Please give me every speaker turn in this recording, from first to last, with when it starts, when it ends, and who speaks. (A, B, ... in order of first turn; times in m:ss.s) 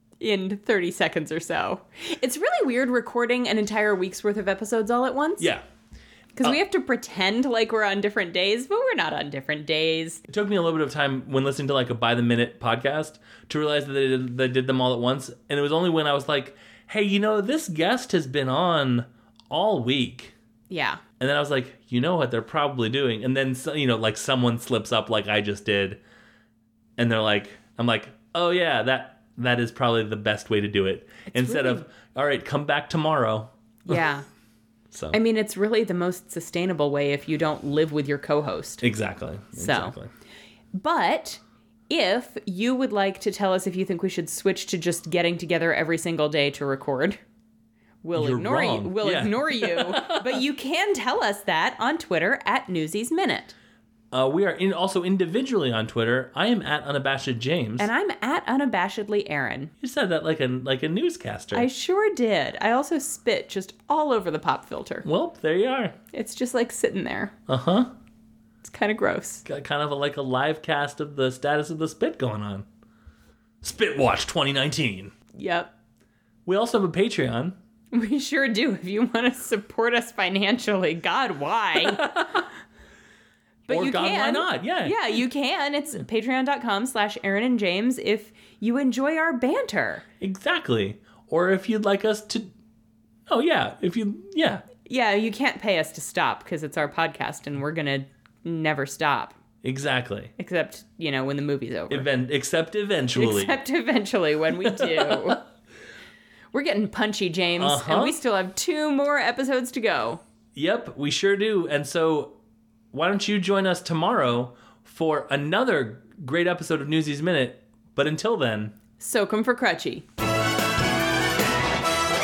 0:00.2-0:05.5 A
0:06.4-0:10.2 A
0:10.3-0:20.3 B
0:20.7-0:21.0 A
0:21.2-0:26.0 B
0:27.0-0:33.5 B
0:31.3-0:31.8 A
0:33.9-0:34.2 A
0:34.9-0:35.2 B
0:35.1-0:38.8 A
0:38.8-0:40.1 B
0:39.6-0:40.0 A
0:40.8-0:47.2 A
0:48.0-0:53.6 A
0:48.2-0:50.4 B
0:54.1-0:57.9 B
0:57.8-0:59.7 A
0:59.8-1:01.7 B
1:01.5-1:05.1 A
1:05.0-1:06.0 B
1:06.1-1:07.3 A
1:07.5-1:07.9 B
1:08.6-1:09.4 A
1:09.4-1:12.7 B
1:13.6-1:15.1 B
1:15.4-1:15.7 A
1:16.5-1:17.6 B
1:17.9-1:22.4 A
1:21.8-1:22.4 B
1:23.7-1:30.0 A
1:23.7-1:25.2 B
1:30.2-1:32.5 B
1:33.3-1:34.7 B
1:34.9-1:39.4 A
1:39.6-1:40.3 B
1:40.4-1:42.1 A
1:41.9-1:43.6 B
1:43.2-1:45.4 A
1:44.7-1:45.4 B
1:46.5-1:50.2 A
1:47.6-1:48.2 B
1:50.6-1:52.4 B
1:52.9-1:58.8 B
1:59.0-2:00.0 A